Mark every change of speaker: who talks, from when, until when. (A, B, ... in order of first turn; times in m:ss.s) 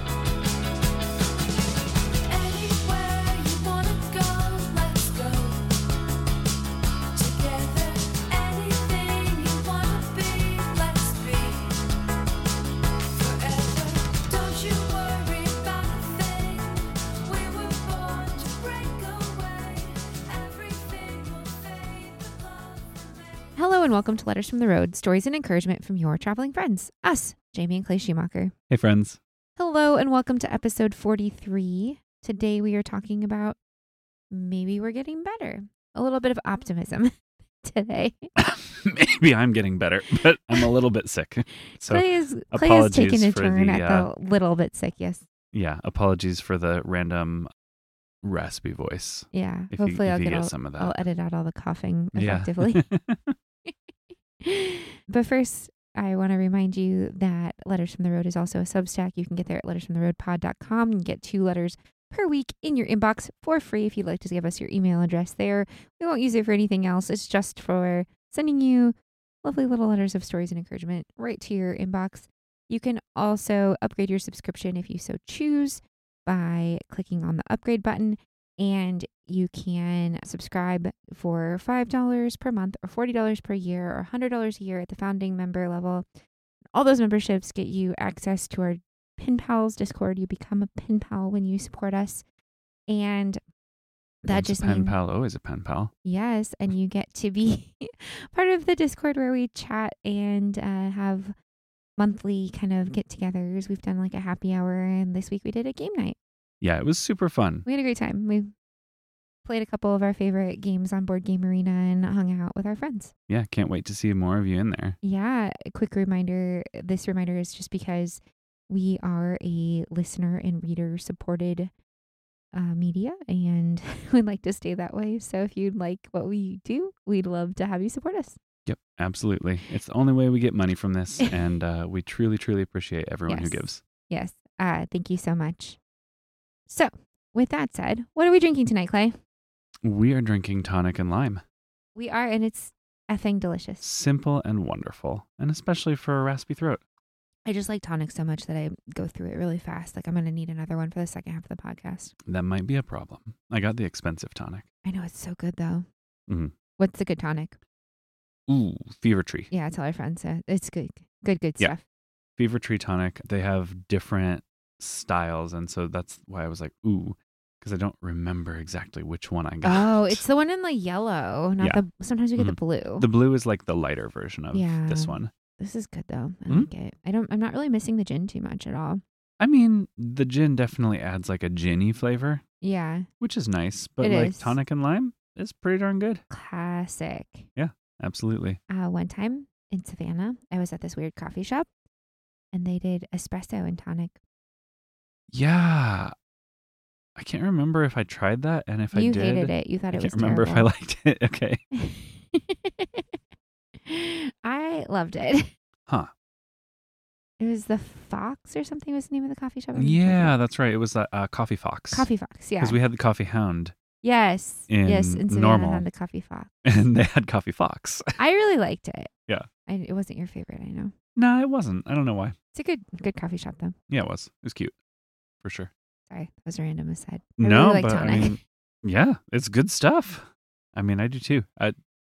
0:02.3-0:05.7 A
0:07.2-0:11.9 A
0:13.1-0:23.6 A
0:23.6-0:28.5 B
0:28.7-0:29.2 C
0:29.6-0:33.6 B
0:34.3-0:38.3 B
0:38.4-0:44.1 C
0:41.7-0:45.2 B
0:45.5-0:47.5 C
0:48.2-0:51.0 C
0:49.3-0:52.8 B
0:52.2-0:53.4 C
0:54.4-1:26.0 B
1:26.8-1:32.2 B
1:32.9-1:33.4 B
1:34.2-1:35.0 B
1:34.3-1:35.9 C
1:36.0-1:41.3 B
1:42.0-1:46.2 B
1:46.6-1:47.6 C
1:47.6-1:48.5 B
1:49.4-1:53.1 B
1:53.3-1:55.0 C
1:55.0-2:01.7 B
2:02.5-2:08.4 B
2:08.7-2:13.8 C
2:13.3-2:15.8 B
2:16.7-2:19.2 B
2:19.8-2:21.4 C
2:22.0-2:23.8 B
2:23.8-2:26.8 C
2:27.5-2:32.1 B
2:32.3-2:34.6 C
2:34.8-2:35.9 B
2:36.3-2:36.5 C
2:36.8-2:37.6 B
2:38.5-2:39.5 C
2:39.5-2:41.8 B
2:42.4-2:50.2 C
2:49.6-2:53.1 B
2:52.4-2:55.3 C
2:54.5-2:59.0 B
2:59.4-3:02.4 C
3:02.6-3:03.1 B
3:03.2-3:06.2 C
3:04.0-3:04.6 B
3:06.3-3:07.5 B
3:07.6-3:08.6 C
3:08.7-3:11.7 B
3:12.5-3:14.2 B
3:15.3-3:16.1 C
3:17.2-3:21.6 C
3:18.9-3:20.7 B
3:21.7-3:23.0 B
3:23.8-3:25.5 B
3:27.4-3:30.3 B
3:29.8-3:33.7 C
3:31.9-3:32.8 B
3:34.0-3:36.5 B
3:34.7-3:35.9 C
3:36.6-3:38.2 C
3:38.2-3:39.1 B
3:39.7-3:40.9 B
3:41.2-3:42.4 C
3:42.5-3:43.8 B
3:43.9-3:44.7 C
3:45.4-3:45.7 C
3:46.1-3:48.4 B
3:47.4-3:51.8 C